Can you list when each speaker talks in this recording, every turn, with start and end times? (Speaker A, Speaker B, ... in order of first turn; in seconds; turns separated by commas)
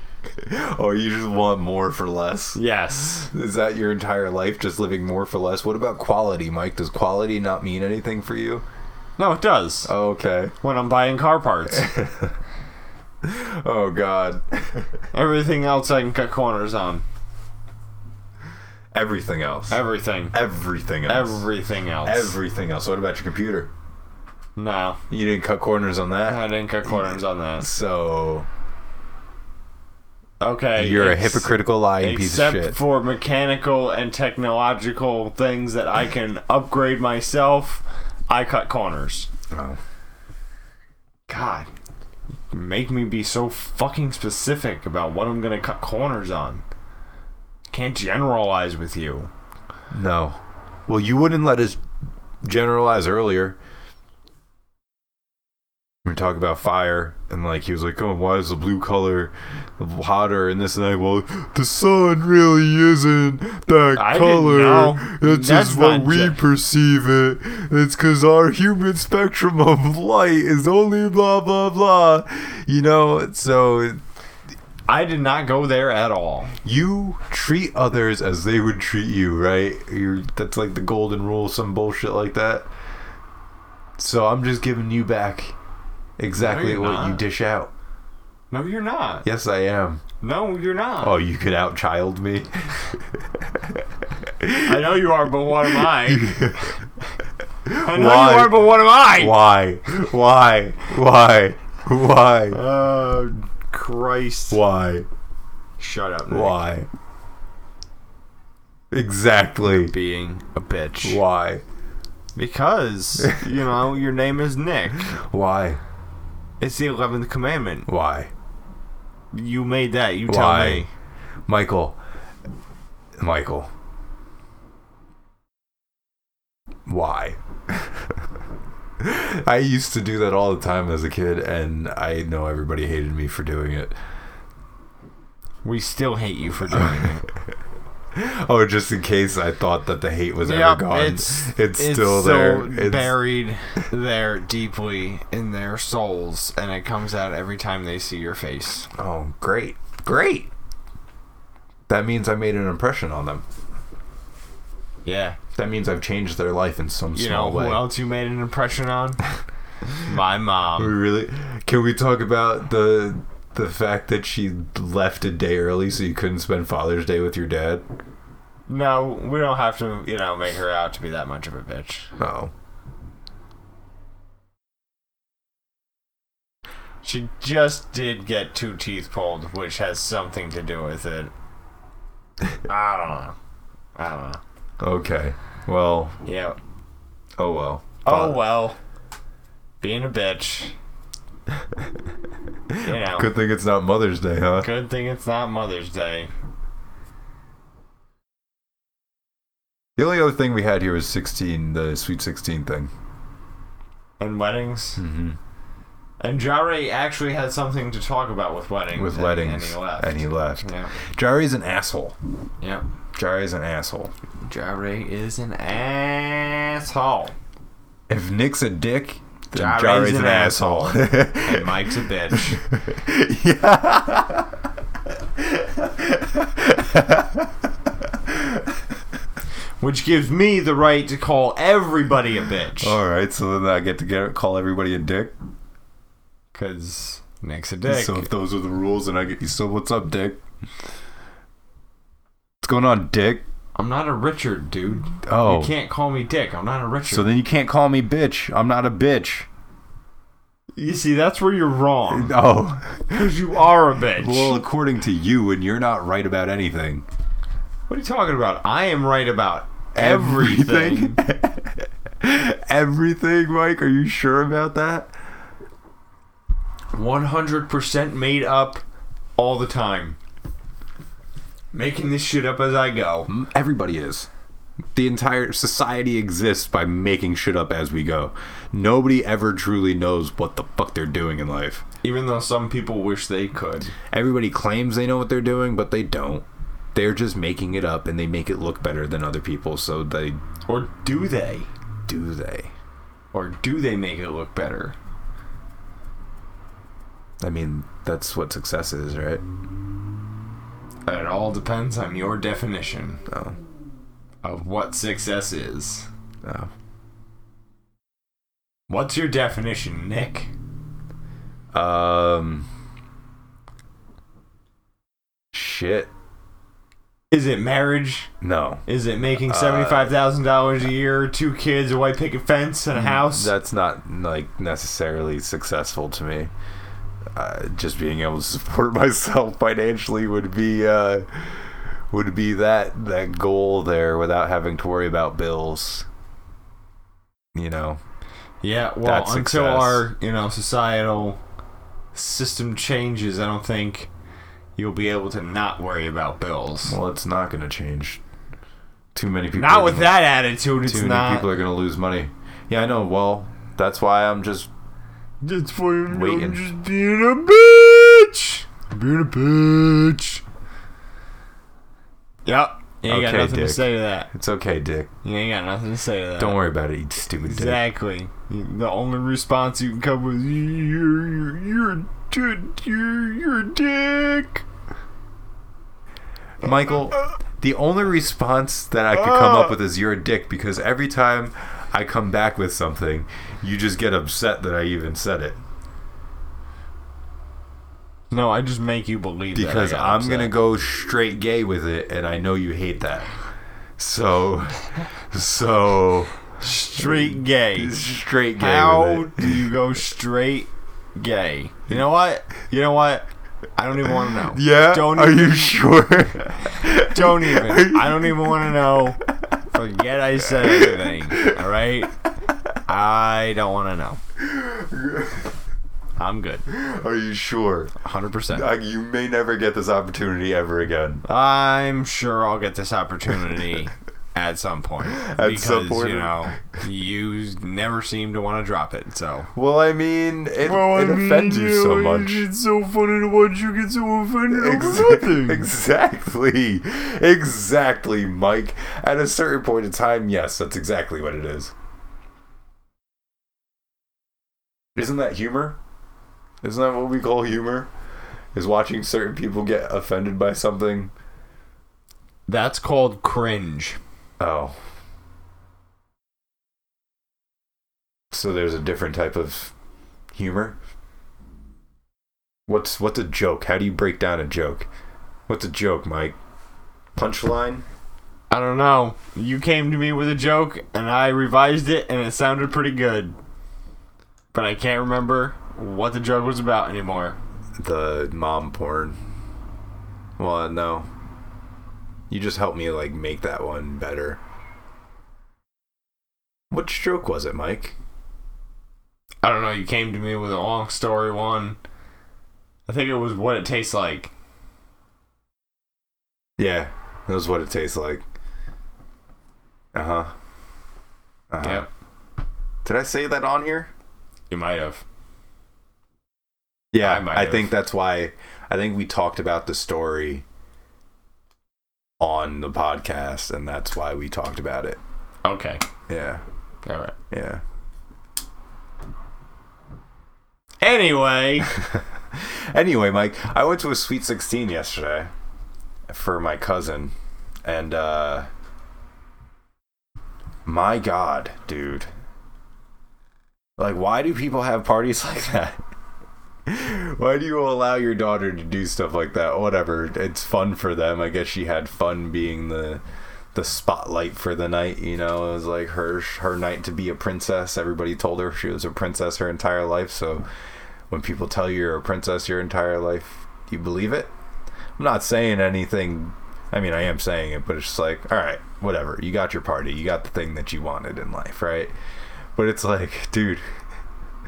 Speaker A: 0.4-2.6, Speaker B: 2.5-3.3, Speaker A: 3.3-8.6, Speaker B: 9.2-9.9, Speaker A: 9.8-10.5, Speaker B: 10.6-11.9, Speaker A: 11.7-12.3, Speaker A: 13.2-15.0, Speaker B: 15.1-17.0, Speaker A: 18.9-21.5, Speaker B: 19.7-20.4, Speaker B: 21.1-22.3, Speaker A: 22.0-23.7, Speaker B: 24.6-25.0, Speaker A: 25.1-28.5, Speaker B: 26.2-27.7, Speaker B: 30.4-39.3, Speaker A: 30.8-32.8, Speaker A: 39.5-39.8, Speaker B: 41.3-41.7, Speaker B: 42.5-46.6, Speaker B: 47.7-49.3, Speaker A: 49.9-51.8, Speaker A: 52.4-53.6, Speaker A: 56.0-74.0, Speaker B: 63.9-66.4, Speaker B: 74.9-76.5, Speaker A: 76.6-82.7, Speaker A: 84.0-85.5, Speaker A: 86.2-87.7, Speaker B: 86.4-87.2, Speaker B: 88.5-89.2, Speaker A: 89.2-90.0, Speaker B: 90.2-91.2, Speaker A: 91.0-93.8, Speaker A: 94.4-95.0, Speaker B: 94.6-96.6, Speaker A: 95.7-96.8, Speaker A: 97.7-102.6, Speaker B: 97.7-99.4, Speaker B: 102.5-104.6, Speaker A: 104.5-105.1, Speaker B: 105.8-106.6, Speaker A: 106.3-106.9, Speaker A: 108.9-109.9, Speaker B: 109.7-111.2, Speaker A: 111.0-111.6, Speaker B: 112.3-115.2, Speaker A: 115.2-115.8, Speaker B: 116.6-117.9, Speaker A: 117.9-118.3, Speaker B: 119.3-120.9, Speaker A: 120.3-120.9, Speaker A: 121.5-122.0, Speaker A: 123.2-123.7, Speaker A: 126.8-128.2, Speaker A: 129.0-133.9, Speaker B: 135.6-137.3, Speaker A: 136.7-137.1, Speaker A: 138.1-143.2, Speaker B: 140.4-148.9, Speaker A: 148.9-150.5, Speaker A: 151.9-153.4, Speaker B: 155.0-155.4, Speaker A: 155.5-157.8, Speaker B: 157.1-159.2, Speaker B: 159.9-160.9, Speaker A: 160.8-167.8, Speaker B: 168.7-172.1, Speaker A: 172.2-172.5, Speaker B: 177.0-181.3, Speaker B: 182.6-183.3, Speaker B: 183.9-184.4, Speaker A: 184.8-186.2, Speaker B: 186.2-186.6, Speaker A: 187.4-188.4, Speaker B: 188.0-188.8, Speaker B: 189.8-190.7, Speaker A: 192.7-194.7, Speaker B: 192.8-193.3, Speaker B: 194.6-196.3, Speaker A: 200.0-202.9, Speaker B: 204.2-205.0, Speaker A: 205.0-205.4, Speaker B: 206.2-210.9, Speaker A: 208.9-212.2, Speaker B: 212.6-212.8, Speaker A: 213.1-214.1, Speaker B: 214.4-217.3, Speaker A: 218.1-224.5, Speaker B: 219.5-222.6, Speaker A: 225.3-227.6, Speaker A: 228.1-228.7, Speaker B: 229.8-233.0, Speaker A: 232.8-235.3, Speaker B: 236.5-238.3, Speaker A: 237.8-240.4, Speaker A: 242.6-243.4, Speaker B: 243.7-247.3, Speaker A: 245.2-245.7, Speaker A: 247.1-249.5, Speaker B: 250.7-252.4, Speaker A: 252.1-253.3, Speaker B: 253.1-254.6, Speaker A: 254.2-257.1, Speaker B: 257.9-261.2, Speaker A: 259.9-265.1, Speaker B: 266.9-268.8, Speaker B: 269.4-270.2, Speaker B: 271.7-273.3, Speaker A: 273.3-274.3, Speaker A: 274.9-281.8, Speaker B: 282.0-283.9, Speaker A: 284.0-290.4, Speaker B: 290.7-291.7, Speaker A: 292.1-292.7, Speaker B: 293.3-294.9, Speaker A: 297.4-299.4, Speaker B: 301.1-303.2, Speaker A: 303.3-303.6, Speaker B: 304.4-306.1, Speaker A: 306.4-306.7, Speaker B: 308.9-310.5, Speaker A: 311.7-312.7, Speaker A: 315.5-316.1, Speaker B: 317.3-318.3, Speaker A: 318.4-320.1, Speaker B: 318.9-323.5, Speaker A: 322.9-326.5, Speaker A: 327.3-336.1, Speaker A: 337.5-338.0, Speaker B: 338.6-341.4, Speaker A: 339.0-340.1, Speaker B: 342.1-344.1, Speaker B: 344.8-347.0, Speaker A: 346.8-348.2, Speaker A: 349.1-350.2, Speaker B: 349.5-351.5, Speaker A: 350.8-354.7, Speaker B: 355.4-360.4, Speaker A: 356.1-356.6, Speaker B: 362.4-364.3, Speaker A: 363.0-365.1, Speaker B: 365.2-366.6, Speaker A: 366.4-367.8, Speaker B: 367.4-374.6, Speaker A: 376.6-385.6, Speaker B: 379.1-379.8, Speaker B: 388.3-390.5, Speaker A: 389.5-393.3, Speaker A: 394.0-396.4, Speaker B: 396.6-405.8, Speaker A: 396.9-399.6, Speaker A: 404.5-408.7, Speaker B: 406.7-412.1, Speaker A: 410.4-411.6, Speaker B: 412.9-414.2, Speaker A: 414.4-415.6, Speaker B: 416.2-416.6, Speaker A: 416.7-417.9, Speaker B: 418.0-418.7, Speaker A: 418.5-421.2, Speaker B: 421.2-429.5, Speaker A: 425.1-426.6, Speaker A: 429.5-432.5, Speaker B: 430.6-435.7, Speaker A: 434.5-441.7, Speaker A: 444.9-445.8, Speaker A: 446.6-447.9, Speaker A: 448.5-451.1, Speaker B: 452.5-454.0, Speaker A: 454.4-454.8, Speaker A: 458.3-459.7, Speaker A: 460.3-460.8, Speaker A: 462.7-464.9, Speaker A: 465.5-466.4, Speaker A: 467.1-467.8, Speaker B: 468.5-473.4, Speaker B: 474.5-477.4, Speaker A: 477.8-479.2, Speaker A: 480.4-481.1, Speaker A: 482.3-484.4, Speaker A: 486.7-487.9, Speaker B: 489.4-491.8, Speaker B: 492.9-494.3, Speaker A: 496.6-498.2, Speaker A: 499.9-500.3, Speaker A: 501.5-501.9, Speaker B: 501.6-501.9, Speaker A: 502.8-503.9, Speaker B: 504.5-505.0, Speaker A: 506.9-510.4, Speaker B: 507.0-507.8, Speaker A: 512.2-515.0, Speaker B: 515.4-515.8, Speaker A: 516.1-516.4, Speaker B: 516.9-517.2, Speaker A: 517.3-517.6, Speaker B: 520.8-521.7, Speaker A: 522.3-525.3, Speaker A: 526.1-528.5, Speaker A: 530.6-532.1, Speaker A: 533.8-535.8, Speaker A: 536.6-543.0, Speaker A: 543.5-550.4, Speaker A: 551.1-554.3, Speaker A: 555.0-561.9, Speaker A: 562.5-563.6